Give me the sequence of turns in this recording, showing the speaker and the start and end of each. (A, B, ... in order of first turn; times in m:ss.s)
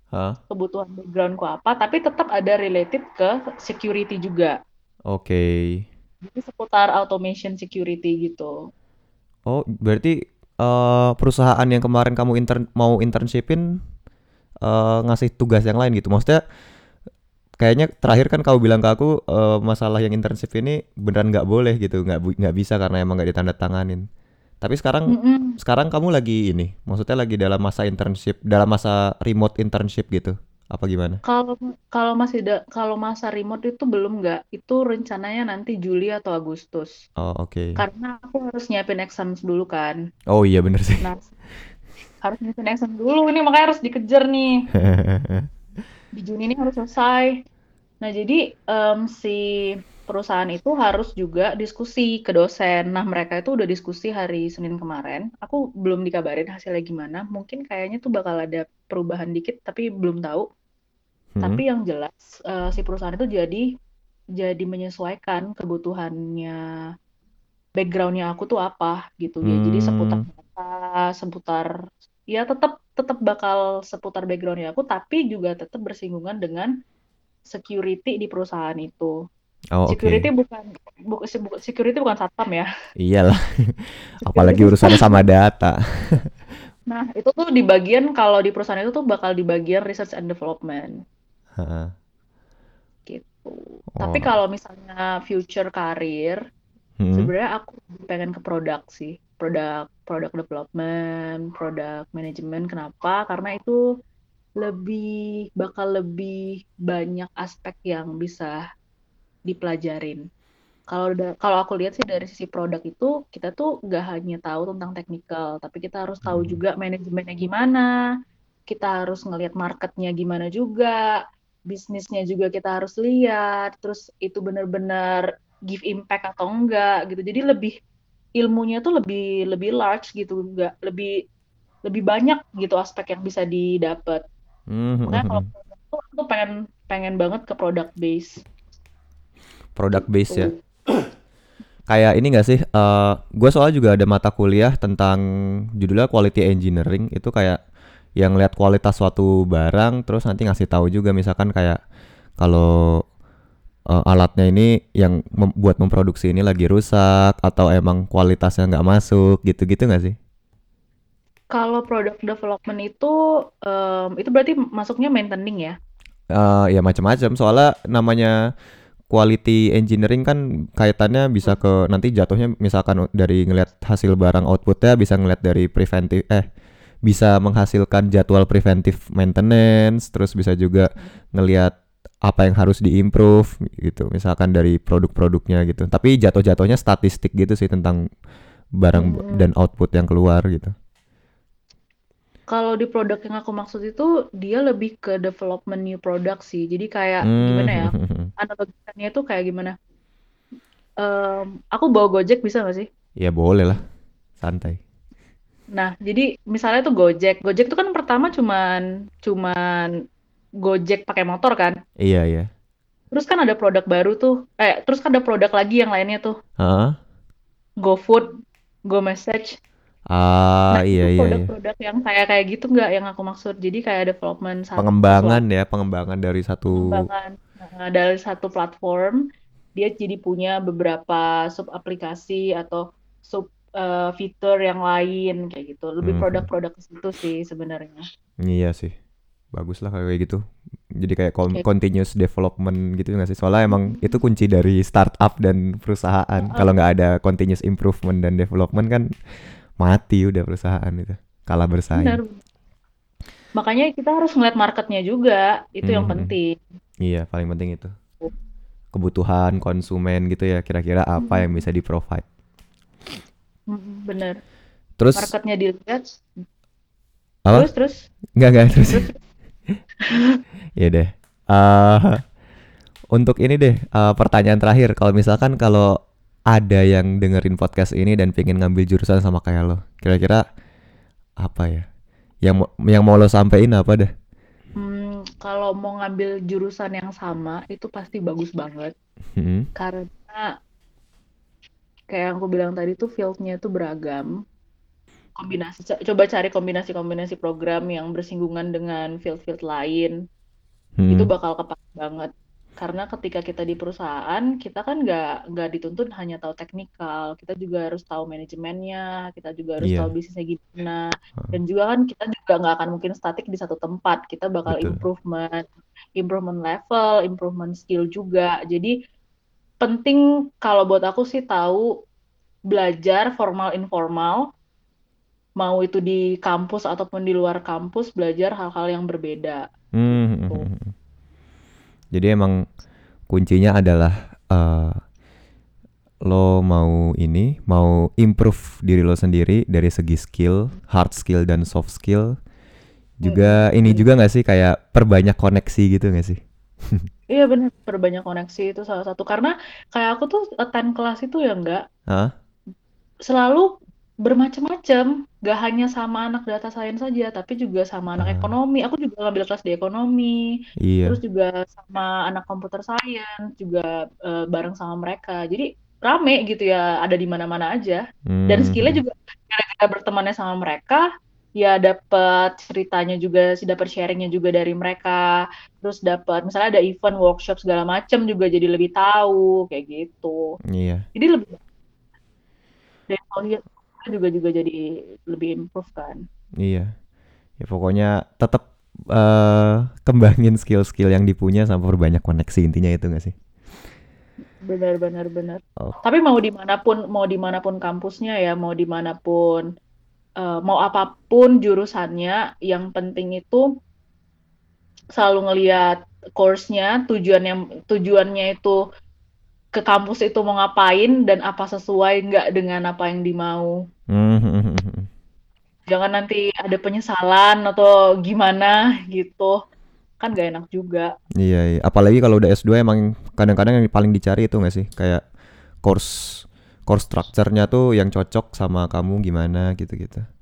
0:00.1-0:00.4 A
0:00.5-0:04.6 B
0:05.1-0:05.8 A
0:06.2-0:08.6 B
0:09.5-0:13.6 A
0:14.6-0:16.4 A
0:17.6-0:24.0 A
0:24.6-0:31.2 A
0:25.1-0:25.6 B
0:31.3-0:37.0 B
0:37.2-0:37.8 A
0:37.8-0:40.0 B
0:40.3-0:41.0 A
0:41.0-0:41.3 B
0:42.2-0:44.7 B
0:44.8-0:45.5 A
0:46.2-0:47.4 B
0:48.0-1:00.5 B
1:01.4-1:01.6 A
1:01.4-1:03.7 B
1:04.4-1:06.6 B
1:07.8-1:11.7 B
1:09.4-1:10.2 A
1:12.3-1:16.7 B
1:17.5-1:19.2 B
1:19.8-1:20.3 A
1:19.9-1:22.7 B
1:23.0-1:26.3 A
1:24.2-1:25.1 B
1:26.9-1:30.9 B
1:31.6-1:31.9 A
1:33.1-1:36.4 B
1:34.0-1:34.3 A
1:37.0-1:37.3 A
1:37.1-1:43.8 B
1:44.6-1:48.6 B
1:49.5-1:50.2 B
1:50.9-1:57.9 B
1:56.2-1:56.6 A
1:58.7-2:01.0 B
2:01.7-2:07.8 B
2:08.4-2:11.1 B
2:11.9-2:14.2 B
2:14.7-2:15.5 A
2:15.1-2:18.4 B
2:19.8-2:20.5 A
2:20.3-2:20.6 B
2:21.9-2:25.2 A
2:25.8-2:27.6 A
2:28.2-2:31.8 A
2:32.4-2:32.7 A
2:33.9-2:40.2 A
2:41.5-2:45.8 B
2:46.3-2:48.3 A
2:49.1-2:56.5 A
2:57.1-3:01.7 A
3:02.3-3:08.0 A
3:08.8-3:10.7 A
3:08.9-3:09.5 B
3:12.5-3:19.8 B
3:17.2-3:18.3 A
3:21.0-3:22.9 B
3:23.2-3:23.8 A
3:24.4-3:24.8 A
3:25.8-3:29.9 B
3:30.6-3:31.8 B
3:32.0-3:32.5 A
3:33.1-3:36.4 B
3:36.6-3:37.0 A
3:37.8-3:38.3 B
3:38.9-3:39.6 B
3:40.1-3:41.5 A
3:40.7-3:45.4 B
3:44.8-3:47.0 A
3:46.7-3:49.2 B
3:49.8-3:58.0 B
3:56.0-3:56.4 A
3:58.4-3:58.9 A
3:59.5-4:00.4 A
4:01.0-4:09.1 A
4:03.7-4:04.2 B
4:06.4-4:06.7 B
4:09.8-4:12.2 A
4:12.0-4:12.4 B
4:13.6-4:16.6 B
4:15.8-4:16.3 A
4:17.0-4:17.9 A
4:18.9-4:22.2 A
4:21.2-4:21.6 B
4:23.7-4:24.4 B
4:25.0-4:25.3 A
4:25.2-4:26.0 B
4:27.5-4:28.0 B
4:28.4-4:29.1 A
4:28.8-4:29.2 B
4:30.1-4:30.4 B
4:30.8-4:32.2 A
4:33.1-4:35.9 A
4:36.5-4:40.4 A
4:41.4-4:41.9 A
4:42.4-4:44.1 A
4:44.8-4:48.9 B
4:49.4-4:49.7 A
4:49.8-4:50.4 B
4:52.1-4:54.3 B
4:55.4-5:00.1 B
5:01.0-5:01.3 A
5:01.1-5:18.9 B
5:09.8-5:10.1 A
5:14.7-5:15.0 A
5:19.8-5:21.9 B
5:22.7-5:24.4 B
5:25.6-5:30.7 B
5:30.0-5:30.9 A
5:32.1-5:32.5 A
5:33.3-5:35.0 A
5:36.3-5:42.4 A
5:43.2-5:47.1 A
5:43.2-5:44.1 B
5:47.3-5:51.8 B
5:53.3-5:53.7 B
5:54.2-6:00.5 B
5:58.2-5:58.5 A
6:00.8-6:01.2 A
6:01.1-6:11.0 B
6:08.3-6:09.0 A
6:11.6-6:20.6 B
6:20.7-6:21.0 A
6:21.2-6:21.6 B
6:23.1-6:26.2 B
6:26.6-6:26.9 A
6:27.6-6:33.4 A
6:34.6-6:39.7 B
6:40.4-6:43.7 B
6:45.2-6:48.8 B
6:49.8-6:53.7 B
6:54.1-6:55.1 A
6:55.9-6:59.6 B
7:00.2-7:01.1 B
7:01.4-7:05.2 A
7:05.8-7:06.1 A
7:06.9-7:10.2 A